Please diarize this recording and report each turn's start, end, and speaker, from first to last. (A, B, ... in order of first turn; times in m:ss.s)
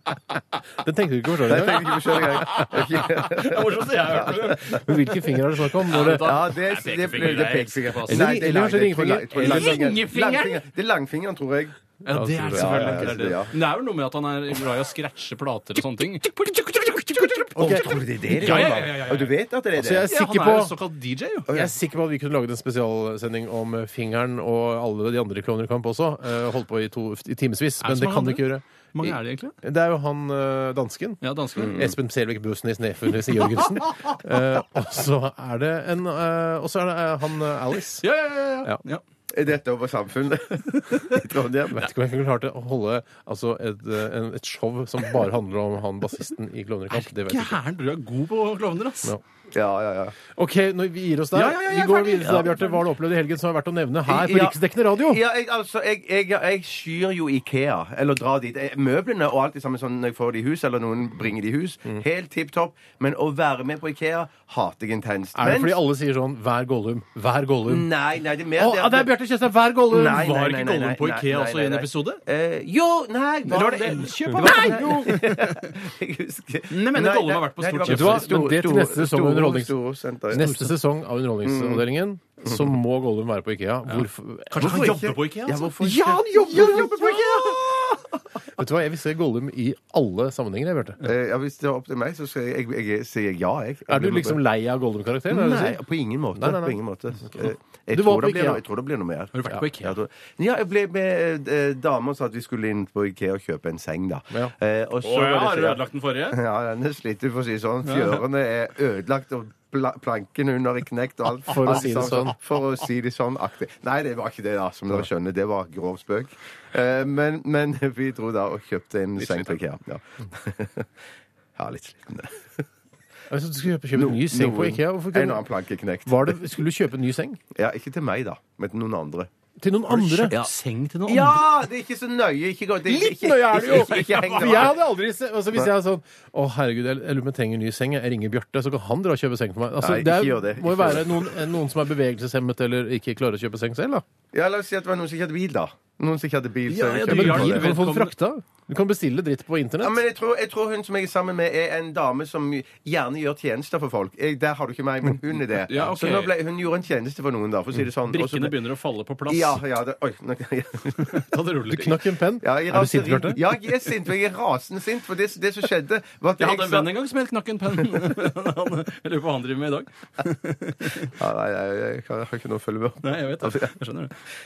0:00.8-0:02.4 A
0:01.4-0:04.8 B
0:01.8-0:05.1 C
0:04.7-0:06.3 A
0:05.8-0:08.3 C
0:06.0-0:11.8 B
0:08.1-0:09.9 A
0:09.4-0:10.6 C
0:12.0-0:17.8 C
0:12.1-0:13.2 A
0:12.5-0:13.5 B
0:16.3-0:18.8 A
0:17.6-0:20.1 B
0:18.3-0:19.4 C
0:19.8-0:20.8 A
0:20.1-0:21.5 C
0:21.5-0:29.1 A
0:27.8-0:29.6 C
0:29.6-0:38.0 A
0:31.2-0:31.9 C
0:31.6-0:31.9 B
0:33.4-0:34.2 C
0:38.0-0:39.0 C
0:39.3-0:41.9 B
0:40.8-0:41.2 C
0:41.7-0:47.6 A
0:46.9-0:49.2 C
0:49.5-0:50.2 B
0:50.3-0:55.2 A
0:51.4-0:52.6 B
0:51.8-0:52.6 C
0:54.1-1:05.8 B
1:05.4-1:07.9 A
1:07.7-1:09.1 B
1:08.6-1:10.3 A
1:09.9-1:20.7 B
1:10.0-1:12.2 C
1:13.5-1:15.7 C
1:14.4-1:15.0 A
1:16.7-1:18.4 C
1:17.9-1:19.8 A
1:20.3-1:24.8 A
1:21.4-1:21.8 B
1:23.9-1:26.0 C
1:24.6-1:28.0 B
1:25.8-1:27.6 A
1:28.6-1:31.1 A
1:31.0-1:34.4 B
1:33.9-1:35.8 A
1:35.3-2:00.9 B
1:36.4-1:38.6 A
1:39.3-1:40.0 C
1:45.0-1:46.4 C
1:47.9-1:48.2 C
1:51.5-1:52.4 A
2:01.6-2:02.6 B
2:03.3-2:05.4 A
2:04.0-2:06.4 B
2:06.1-2:07.4 A
2:07.6-2:09.3 B
2:09.6-2:10.4 A
2:09.9-2:10.5 B
2:10.3-2:11.4 C
2:11.1-2:14.8 B
2:12.9-2:24.0 A
2:13.6-2:14.7 C
2:19.8-2:21.4 B
2:24.3-2:27.7 B
2:26.7-2:28.1 C
2:27.0-2:30.0 A
2:29.8-2:38.6 B
2:35.7-2:36.3 C
2:38.1-2:39.6 C
2:39.3-2:41.2 B
2:41.0-2:42.0 C
2:41.7-2:43.4 A
2:42.4-2:46.9 B
2:46.4-2:51.1 C
2:51.1-2:53.7 B
2:53.0-2:54.2 C